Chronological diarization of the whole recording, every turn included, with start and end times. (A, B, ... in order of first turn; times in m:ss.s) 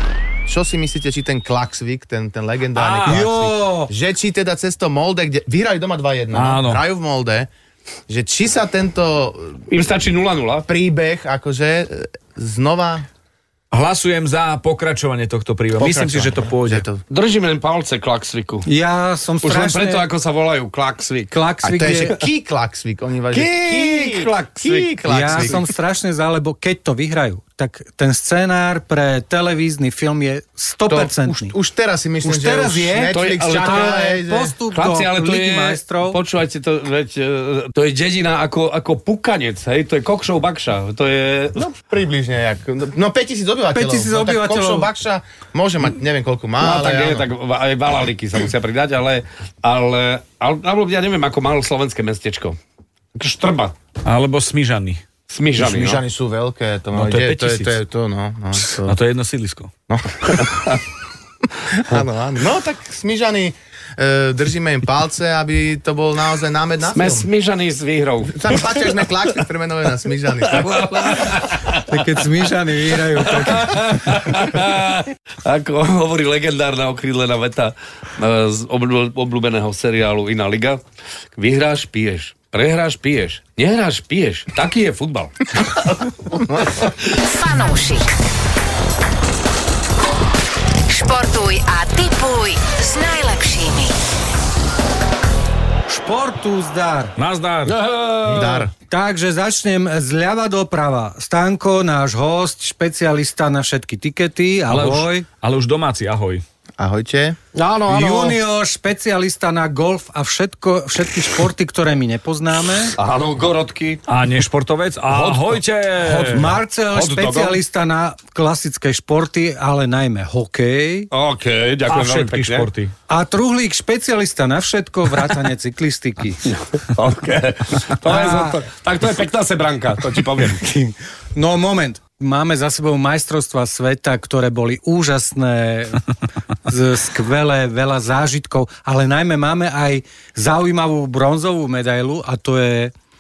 0:00.4-0:07.5 A
0:02.8-0:03.2 B
0:03.0-0:03.9 C
0:06.3-0:06.8 B
0:08.1-0:09.6 A
0:09.7-0:10.7 D
0:10.7-0:13.0 A
0:13.7-0:16.8 B
0:15.8-0:17.0 A
0:17.1-0:18.6 D
0:18.6-0:20.1 C
0:19.4-0:21.3 D
0:21.3-0:22.2 C
0:21.6-0:25.6 A
0:23.3-0:25.6 D
0:25.1-0:31.5 C
0:30.9-0:34.5 A
0:32.2-0:36.2 C
0:33.1-0:34.0 D
0:34.7-0:41.7 D
0:41.6-0:47.3 A
0:43.7-0:44.9 C
0:46.6-0:52.6 D
0:53.2-0:53.7 D
0:54.0-0:55.0 B
0:55.3-0:56.0 D
0:55.6-0:58.9 A
0:56.9-0:57.7 B
0:58.7-0:59.7 B
0:59.9-1:00.8 A
1:01.6-1:07.3 A
1:06.9-1:08.8 D
1:08.3-1:11.4 A
1:10.5-1:11.8 D
1:11.9-1:14.2 C
1:13.2-1:20.8 D
1:21.4-1:25.8 D
1:26.3-1:26.6 A
1:27.1-1:28.1 E
1:30.9-1:33.9 E
1:35.9-1:37.2 C
1:37.2-1:37.8 B
1:37.6-1:38.7 D
1:38.3-1:38.7 A
1:38.9-1:45.2 C
1:44.7-1:46.4 B
1:46.8-1:47.4 A
1:47.5-1:48.4 D
1:47.9-1:53.0 C
1:53.0-1:54.0 D
1:54.1-1:56.5 B
1:55.1-1:57.6 D
1:56.1-2:01.1 C
2:01.1-2:02.7 D
2:01.9-2:02.9 B
2:03.1-2:06.5 C
2:06.9-2:10.6 D
2:08.0-2:08.6 C
2:10.6-2:16.0 C
2:16.6-2:22.9 C